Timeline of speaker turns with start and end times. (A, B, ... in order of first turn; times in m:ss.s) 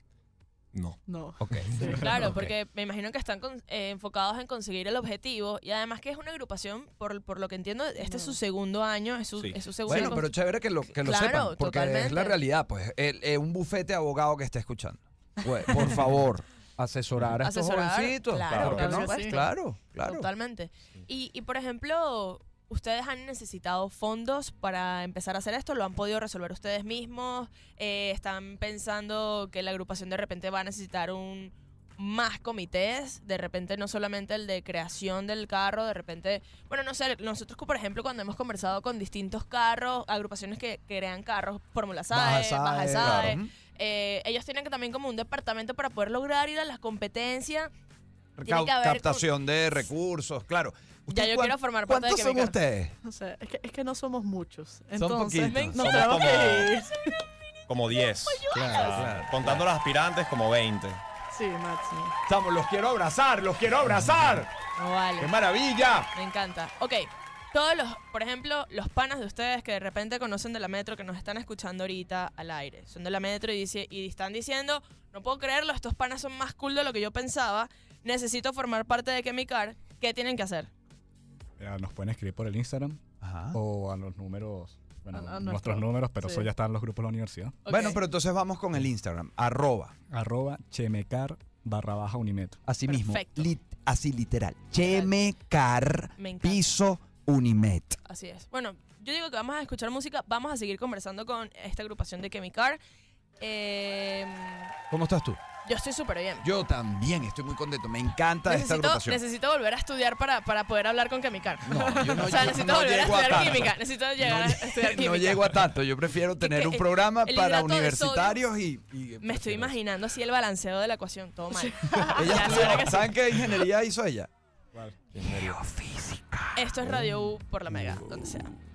0:00.7-0:01.0 A
0:01.1-0:02.0 B
0:01.4-0:02.5 C
0:01.9-0:12.4 D
0:08.0-0:08.4 B
0:09.4-0:10.2 A
0:09.9-0:20.3 C
0:17.4-0:47.7 D
0:18.5-0:19.0 A
0:18.6-0:19.4 B
0:42.1-0:43.5 C
0:43.0-0:43.4 A
0:48.4-0:53.0 C
0:48.4-0:49.3 D
0:51.1-0:52.6 D
0:53.0-0:57.2 B
0:55.0-0:55.8 C
0:55.5-0:56.2 D
0:55.8-0:56.7 A
0:57.7-1:01.0 A
0:58.4-0:58.7 B
0:58.5-0:59.7 C
1:01.3-1:02.2 B
1:02.3-1:04.5 C
1:04.8-1:05.4 D
1:05.2-1:06.1 C
1:06.1-1:20.7 D
1:21.6-1:23.0 E
1:23.2-1:23.6 C
1:23.5-1:27.6 E
1:25.1-1:26.2 B
1:27.6-1:28.0 D
1:27.7-1:29.9 C
1:30.1-1:32.6 E
1:32.7-1:38.0 C
1:32.9-1:33.5 D
1:34.8-1:35.1 D
1:36.2-1:36.7 D
1:38.0-1:42.8 D
1:43.4-1:44.7 D
1:44.9-1:45.4 C
1:45.6-1:46.5 D
1:46.4-1:49.2 C
1:48.4-1:55.7 D
1:51.7-1:59.8 C
1:51.7-1:52.4 B
1:56.4-1:58.4 D
1:59.2-2:03.2 D
2:01.5-2:02.4 B
2:01.9-2:04.3 C
2:04.7-2:05.0 E
2:05.1-2:05.6 A
2:05.2-2:07.0 C
2:06.6-2:08.5 D